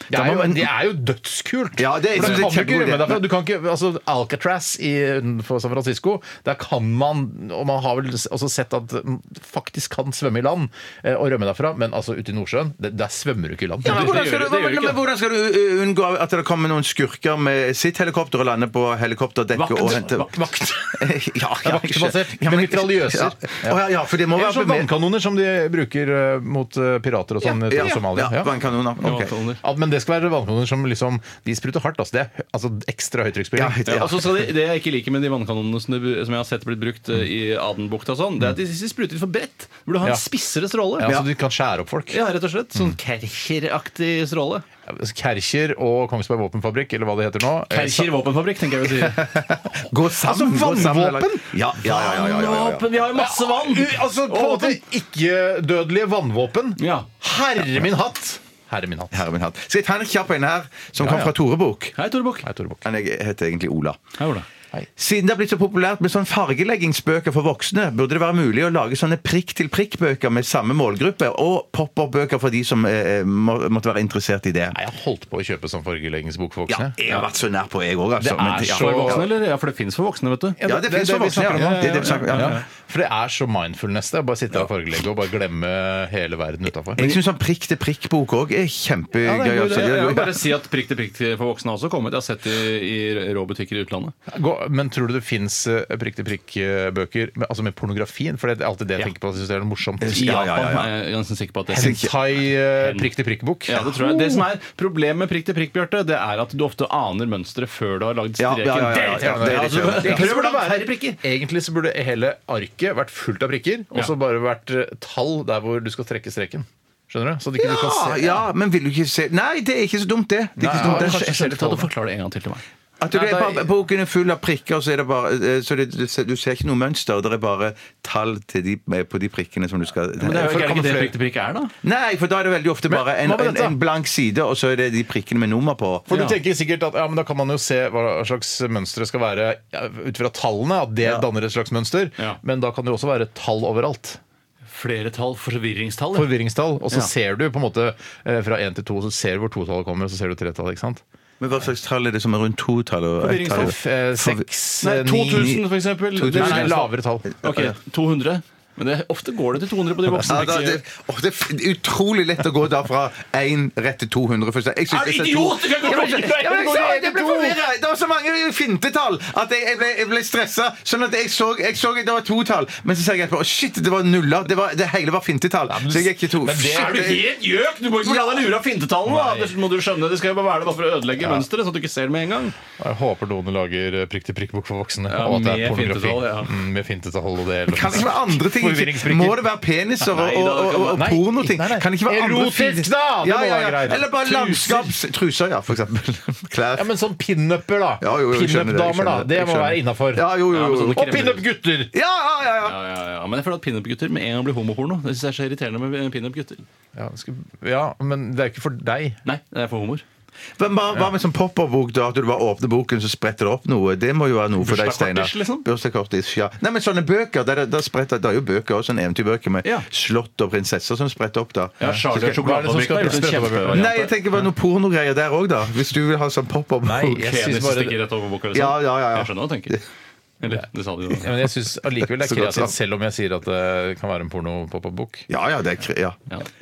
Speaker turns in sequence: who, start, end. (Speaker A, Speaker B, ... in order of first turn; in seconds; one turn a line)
Speaker A: 0.1-0.7
Speaker B: 0.1-14.2
Speaker A: 1.8-3.2
Speaker A: 13.8-24.9
Speaker C: 13.8-15.0
Speaker C: 19.5-20.4
Speaker B: 19.8-21.1
Speaker B: 21.6-28.5
Speaker A: 27.4-29.3
Speaker C: 29.0-29.6
Speaker B: 29.6-33.9
Speaker A: 33.6-34.5
Speaker C: 33.9-41.1
Speaker B: 41.0-42.2
Speaker C: 42.1-44.6
Speaker B: 44.9-48.1
Speaker C: 47.7-49.3
Speaker A: 49.1-52.9
Speaker B: 50.0-51.5
Speaker C: 51.9-54.8
Speaker B: 53.1-59.3
Speaker C: 56.8-57.1
Speaker A: 59.1-62.0
Speaker B: 61.0-61.3
Speaker C: 62.0-62.5
Speaker B: 62.4-62.8
Speaker A: 62.8-64.0
Speaker C: 64.2-64.5
Speaker A: 65.0-74.8
Speaker B: 74.7-77.0
Speaker A: 76.7-79.2
Speaker B: 78.2-79.3
Speaker C: 78.5-80.6
Speaker B: 80.6-87.2
Speaker A: 80.7-82.6
Speaker C: 81.5-82.7
Speaker A: 87.0-90.5
Speaker B: 89.2-90.0
Speaker C: 89.6-94.1
Speaker B: 94.3-100.5
Speaker A: 100.0-100.9
Speaker C: 100.1-102.1
Speaker B: 101.7-104.4
Speaker A: 101.7-102.1
Speaker C: 102.8-103.1
Speaker C: 103.7-111.2
Speaker A: 108.4-110.4
Speaker B: 109.1-118.5
Speaker A: 117.6-121.5
Speaker B: 120.6-121.9
Speaker C: 120.7-122.6
Speaker A: 123.0-130.8
Speaker B: 123.1-123.7
Speaker C: 130.2-131.7
Speaker B: 130.3-131.1
Speaker A: 131.8-136.1
Speaker B: 132.9-133.8
Speaker B: 136.1-144.2
Speaker C: 136.1-136.4
Speaker C: 144.7-146.3
Speaker B: 146.2-151.0
Speaker A: 151.4-154.4
Speaker C: 153.2-153.7
Speaker B: 153.5-155.6
Speaker C: 154.8-156.9
Speaker A: 155.3-155.6
Speaker A: 156.2-157.7
Speaker B: 156.2-157.3
Speaker C: 157.4-160.8
Speaker B: 160.1-160.3
Speaker A: 160.3-177.3
Speaker C: 164.9-167.0
Speaker B: 165.9-167.6
Speaker B: 175.7-177.2
Speaker C: 176.7-182.6
Speaker A: 178.0-178.5
Speaker B: 179.1-179.5
Speaker B: 181.2-181.4
Speaker B: 182.8-189.4
Speaker C: 185.1-186.6
Speaker A: 187.7-196.9
Speaker C: 190.0-191.2
Speaker B: 190.9-194.1
Speaker C: 194.0-195.0
Speaker B: 196.8-200.3
Speaker A: 198.0-201.2
Speaker C: 200.5-201.4
Speaker B: 200.9-201.9
Speaker A: 201.9-202.8
Speaker C: 202.6-206.6
Speaker B: 206.9-209.2
Speaker C: 209.2-210.0
Speaker A: 210.6-222.4
Speaker C: 214.6-215.7
Speaker C: 221.8-224.2
Speaker B: 221.8-224.0
Speaker A: 223.0-227.3
Speaker B: 226.8-228.0
Speaker C: 227.2-229.8
Speaker A: 228.5-229.8
Speaker C: 230.4-231.3
Speaker B: 231.2-235.3
Speaker A: 232.2-232.7
Speaker A: 235.3-236.2